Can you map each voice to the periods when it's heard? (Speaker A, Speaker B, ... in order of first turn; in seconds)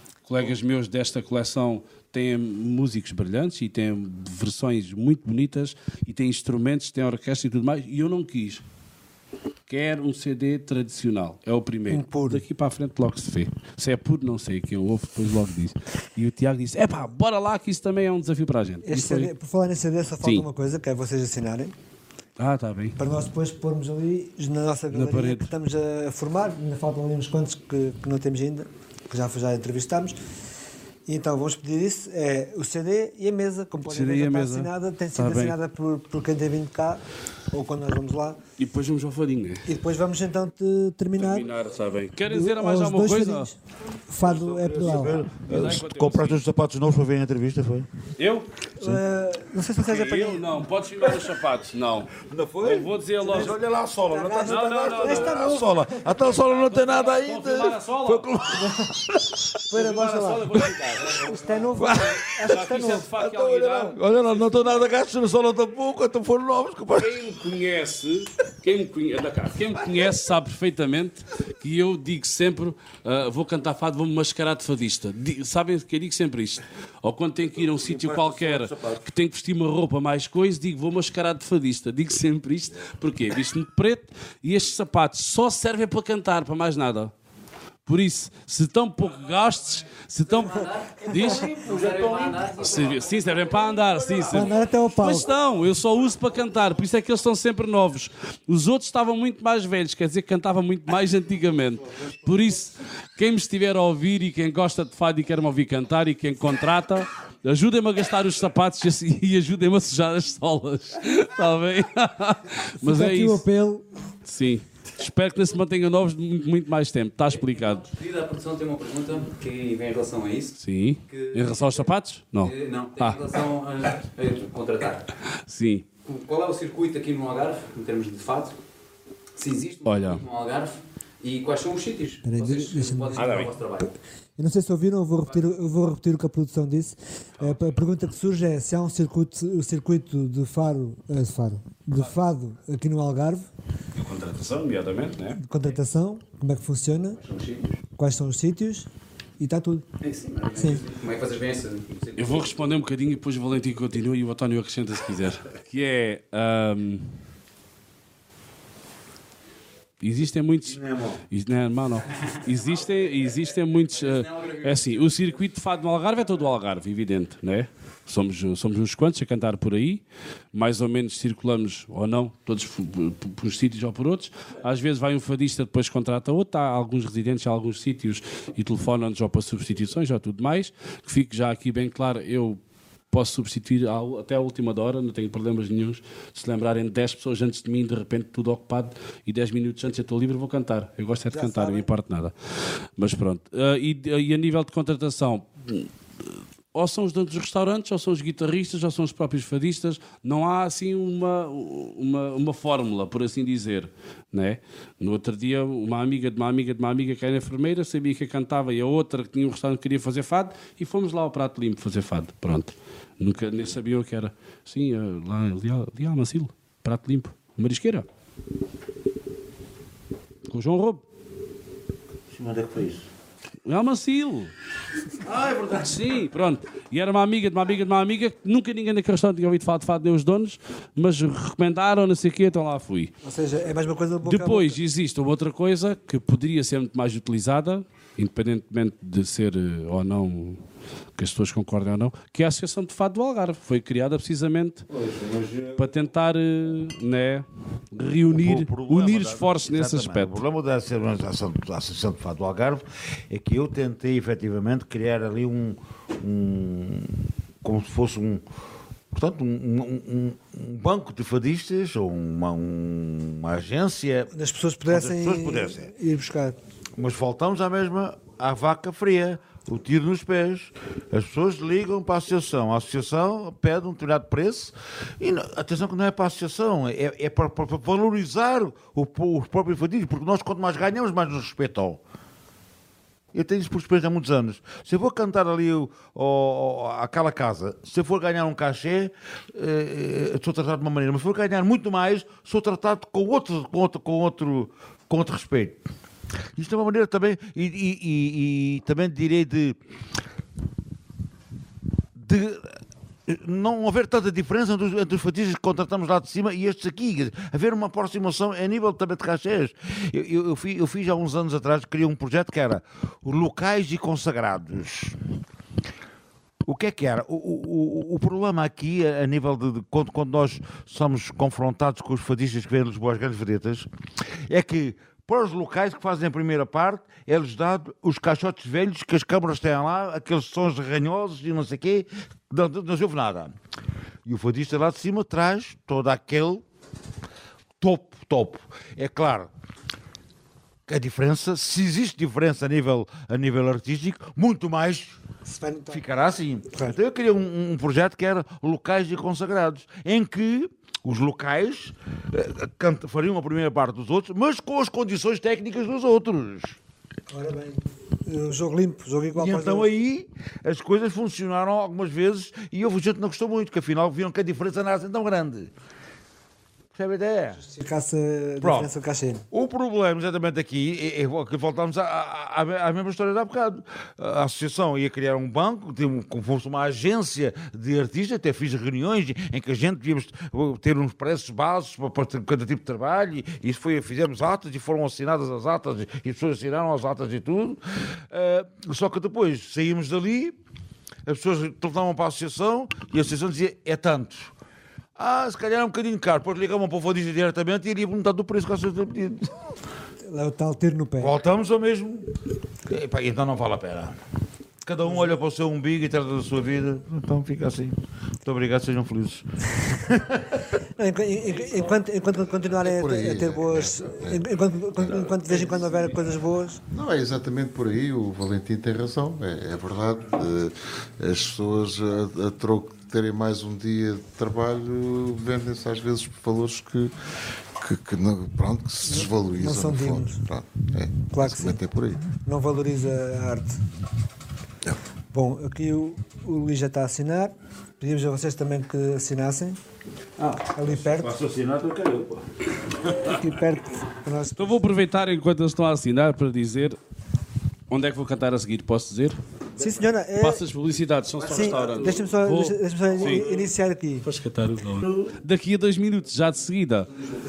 Speaker A: 0.2-8.6, 9.7-19.3, 22.4-23.0, 24.9-25.5, 33.8-35.6, 38.6-39.7, 41.2-43.5, 45.3-46.4, 48.2-48.5, 49.8-53.6, 54.4-55.6, 56.2-58.3, 59.7-64.9, 66.9-87.1, 87.9-113.4, 114.2-117.9, 120.6-123.2, 125.3-125.9, 129.8-130.2, 133.1-133.5, 143.9-145.4, 152.2-157.2, 160.0-182.6, 183.1-218.1, 220.5-221.0, 223.7-224.5, 225.7-233.1, 234.2-240.6, 241.2-244.8, 245.8-250.4, 444.6-447.0, 447.9-449.4, 450.4-453.6, 454.2-457.1
Speaker B: 11.9-12.4, 18.8-21.7, 23.0-30.2, 31.1-38.4, 39.7-41.5, 42.3-43.6, 44.1-45.3, 48.8-50.5, 53.2-53.5, 54.1-56.0, 59.7-60.5, 61.2-63.1, 94.3-95.3, 112.8-113.9, 132.2-133.5, 134.4-143.5, 145.4-147.2, 148.0-148.9, 149.4-149.8, 150.6-150.8, 191.3-191.9, 233.2-234.8, 264.3-266.6, 345.5-346.0, 357.3-359.9, 367.6-369.5, 400.3-401.3, 411.0-416.8, 429.1-430.4, 431.3-431.8, 432.4-433.8, 435.3-439.8, 440.7-441.4, 443.2-444.8, 449.8-450.6, 451.4-454.3
Speaker C: 44.2-47.9, 52.2-59.2, 61.8-67.2, 77.7-79.0, 91.8-92.3, 160.7-161.2, 222.3-223.1, 225.3-225.8, 244.9-245.8, 248.3-258.4, 259.1-264.3, 264.9-265.9, 267.0-282.0, 283.3-295.8, 296.6-299.8, 302.2-315.2, 316.7-323.9, 324.5-333.5, 334.2-336.6, 337.8-339.5, 340.9-345.2, 345.9-356.8, 359.4-365.7, 366.9-367.6, 368.6-368.9, 369.5-390.6, 391.3-394.5, 395.2-399.5, 401.2-402.3, 402.9-404.2, 404.8-410.6, 440.4-442.4
Speaker D: 90.4-94.6, 117.5-120.6, 121.1-121.8, 122.4-125.1, 126.0-128.6, 129.4-133.9, 147.2-147.8, 150.0-152.5, 164.1-164.6
Speaker E: 412.8-414.5, 416.9-427.1, 427.8-432.3